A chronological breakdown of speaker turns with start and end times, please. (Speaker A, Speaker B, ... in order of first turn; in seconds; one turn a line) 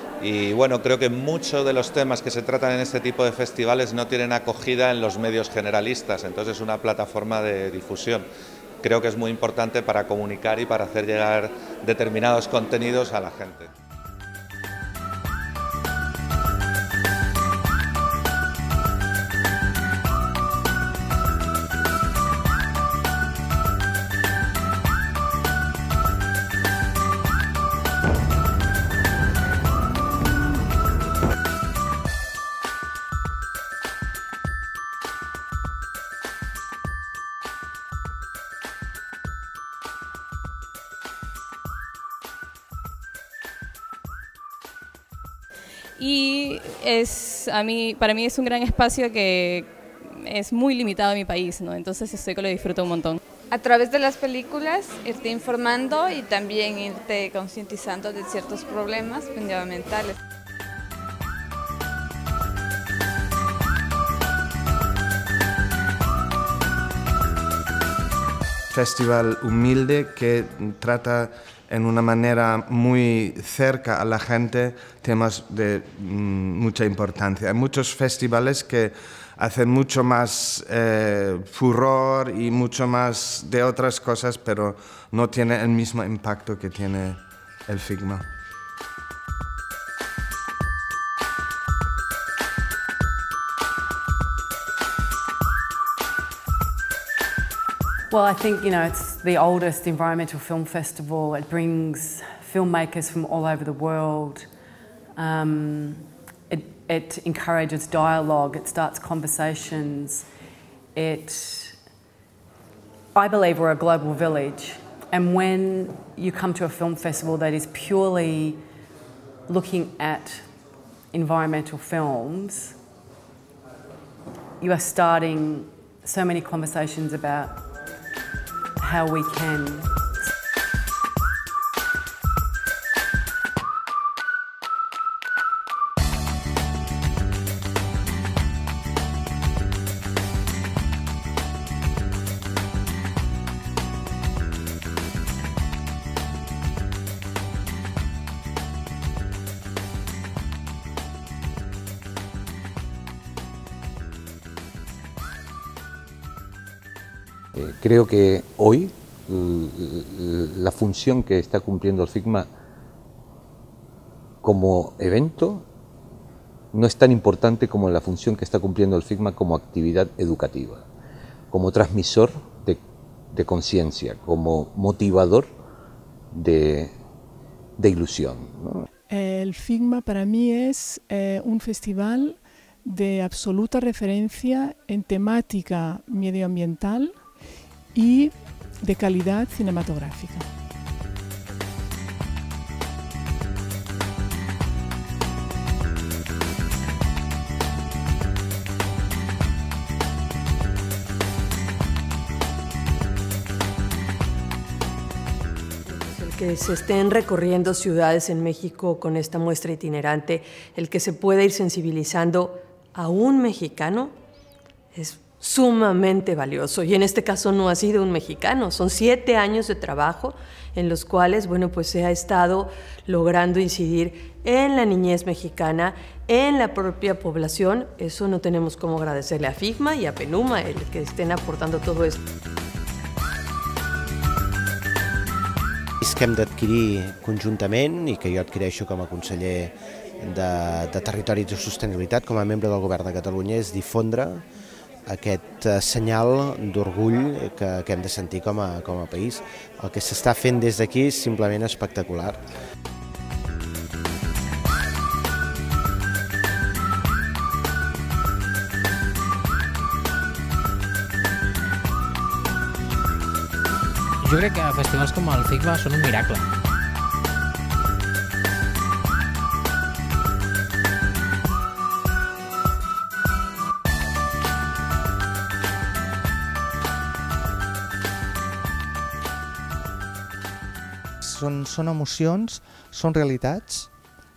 Speaker A: 0.2-8.3
Speaker A: 8.8-13.7
Speaker B: 46.0-53.2
Speaker C: 53.5-60.2
Speaker D: 68.7-88.2
Speaker E: 98.1-104.5
Speaker E: 105.2-110.3
Speaker E: 111.0-111.8
Speaker E: 113.1-118.6
Speaker E: 119.5-120.6
Speaker E: 121.1-122.8
Speaker E: 124.6-127.7
Speaker E: 128.8-130.0
Speaker F: 157.6-162.5
Speaker F: 164.4-165.7
Speaker F: 166.7-170.8
Speaker F: 171.5-172.8
Speaker F: 173.3-175.5
Speaker F: 176.3-176.9
Speaker F: 177.8-178.9
Speaker G: 179.1-187.3
Speaker G: 187.9-190.5
Speaker H: 205.8-214.1
Speaker H: 214.9-232.2
Speaker I: 236.0-244.5
Speaker I: 245.1-252.4
Speaker J: 264.2-266.4
Speaker K: 281.2-284.0